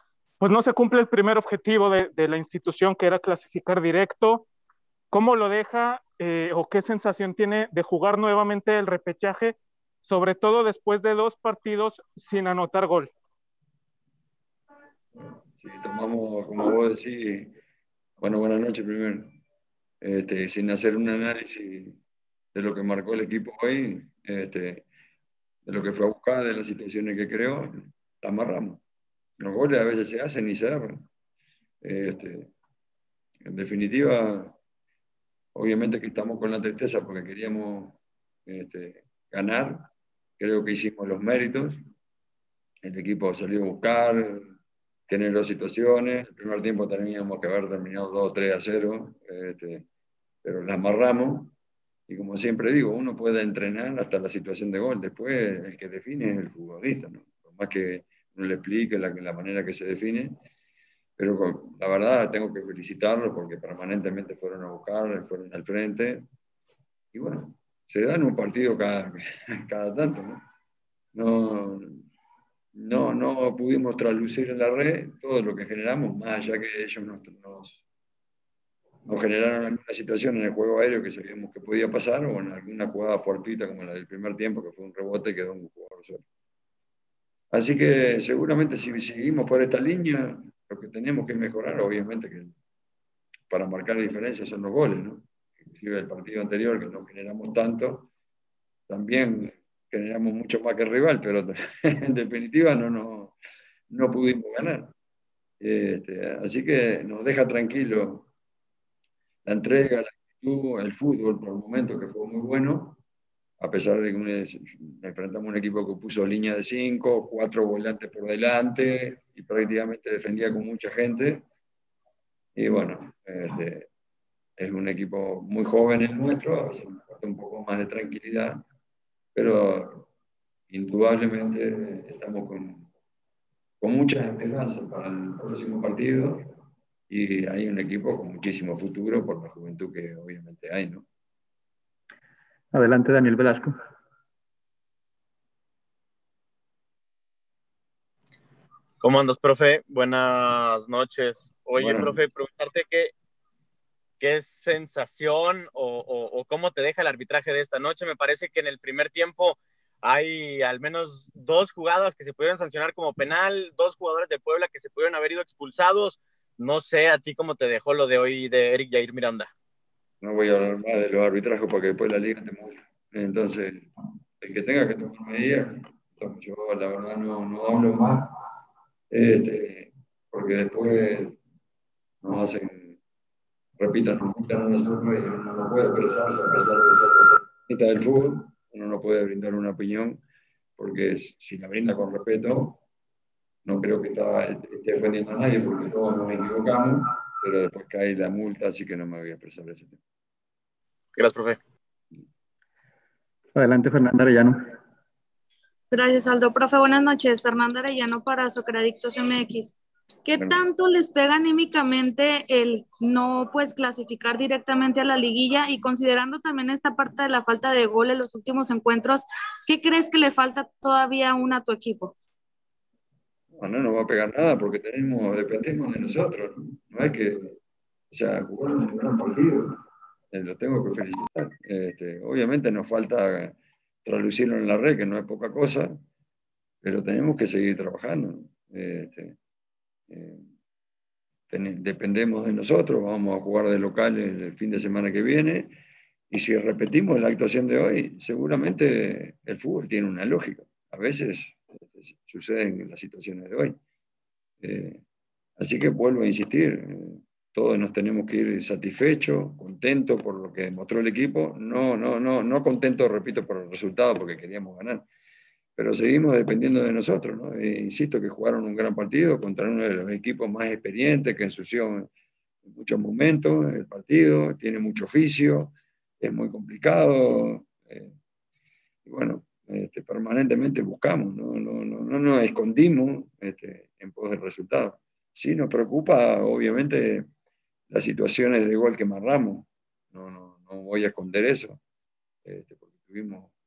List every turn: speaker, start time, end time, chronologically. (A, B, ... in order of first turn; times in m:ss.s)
0:00.4-0:04.5 A
0:05.1-0:13.1 A
0:15.6-0:17.5 B
0:18.2-0:19.4 B
0:20.0-0:22.0 B
0:22.6-0:24.9 B
0:25.7-0:28.8 B
0:29.4-0:31.1 B
0:31.8-0:32.5 B
0:33.4-0:34.6 B
0:35.6-0:41.8 B
0:42.8-0:44.5 B
0:45.1-0:49.9 B
0:50.4-0:51.6 B
0:52.1-1:00.4 B
1:01.2-1:06.3 B
1:07.1-1:10.4 B
1:11.2-1:12.0 B
1:12.8-1:17.8 B
1:19.1-1:26.2 B
1:27.5-1:32.5 B
1:33.5-1:38.1 B
1:38.9-1:43.4 B
1:43.9-1:44.9 B
1:45.6-1:48.3 B
1:49.5-1:53.0 B
1:53.6-2:01.4 B
2:02.6-2:03.9 B
2:04.6-2:08.6 B
2:09.4-2:10.1 B
2:10.7-2:12.9 B
2:13.8-2:16.5 B
2:17.1-2:21.1 B
2:22.7-2:23.8 C
2:29.0-2:33.1 D
2:31.8-2:32.1 B
2:34.2-2:49.5 D
2:50.2-2:53.9 B
2:54.4-2:58.3 B
2:59.1-3:01.4 B
3:02.2-3:03.0 B
3:03.8-3:10.2 B
3:10.8-3:12.8 B
3:13.6-3:20.0 B
3:21.2-3:21.6 D
3:23.6-3:24.7 C
3:25.9-3:42.1 E
3:43.5-3:47.6 B
3:48.1-3:49.7 B
3:50.3-3:56.0 B
3:56.8-3:59.4 B
4:00.1-4:00.4 B
4:01.5-4:05.7 B
4:06.3-4:13.8 B
4:14.6-4:15.0 B
4:15.6-4:25.1 B
4:25.8-4:32.1 B
4:32.6-4:38.1 B
4:39.1-4:47.3 B
4:47.9-4:51.8 B
4:52.4-4:53.5 B